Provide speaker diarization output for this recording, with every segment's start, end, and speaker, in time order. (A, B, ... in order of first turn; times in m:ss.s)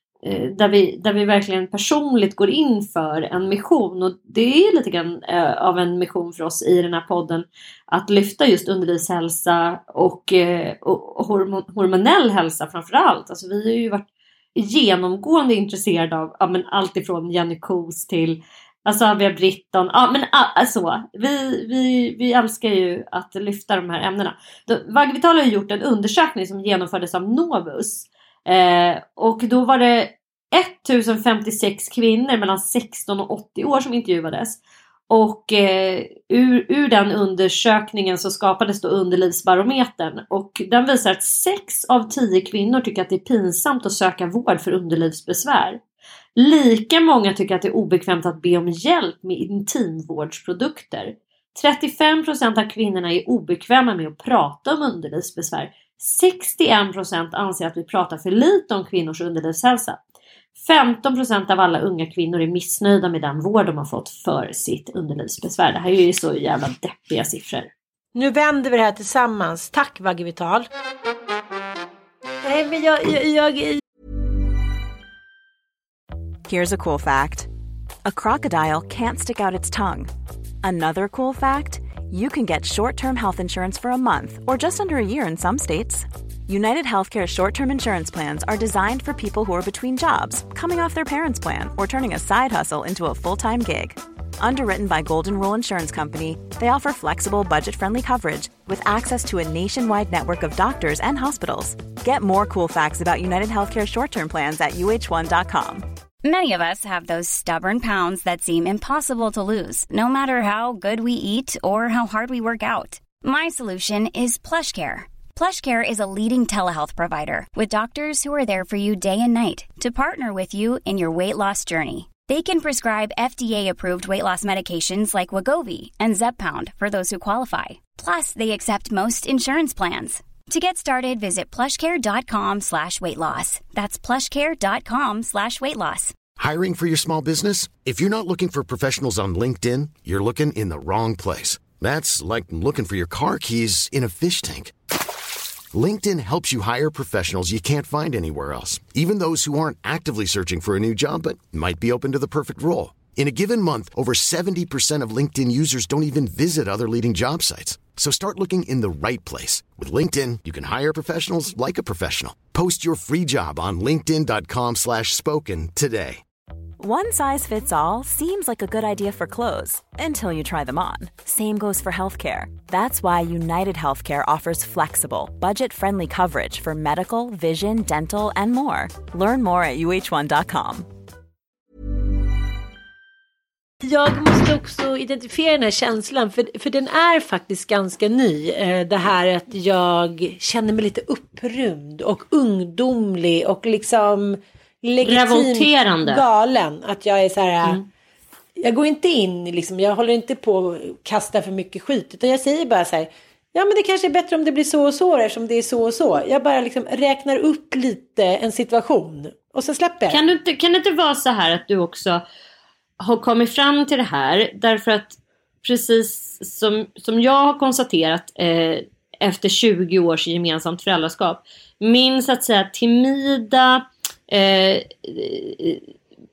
0:00.2-0:34.6 A
0:35.1-0:45.8 A
0:46.4-1:00.0 A
1:00.6-1:07.7 A
1:08.1-1:10.7 B
1:12.4-1:13.8 B
1:16.5-1:17.5 C
1:18.0-1:20.1 C
1:20.6-1:45.8 C
1:46.2-2:16.2 D
2:16.4-2:24.7 E
2:25.7-2:46.2 E
2:46.8-3:00.9 C
3:03.8-3:17.8 B
3:15.0-3:16.2 A
3:18.6-3:30.2 B
3:30.1-3:32.2 A
3:33.0-3:45.9 A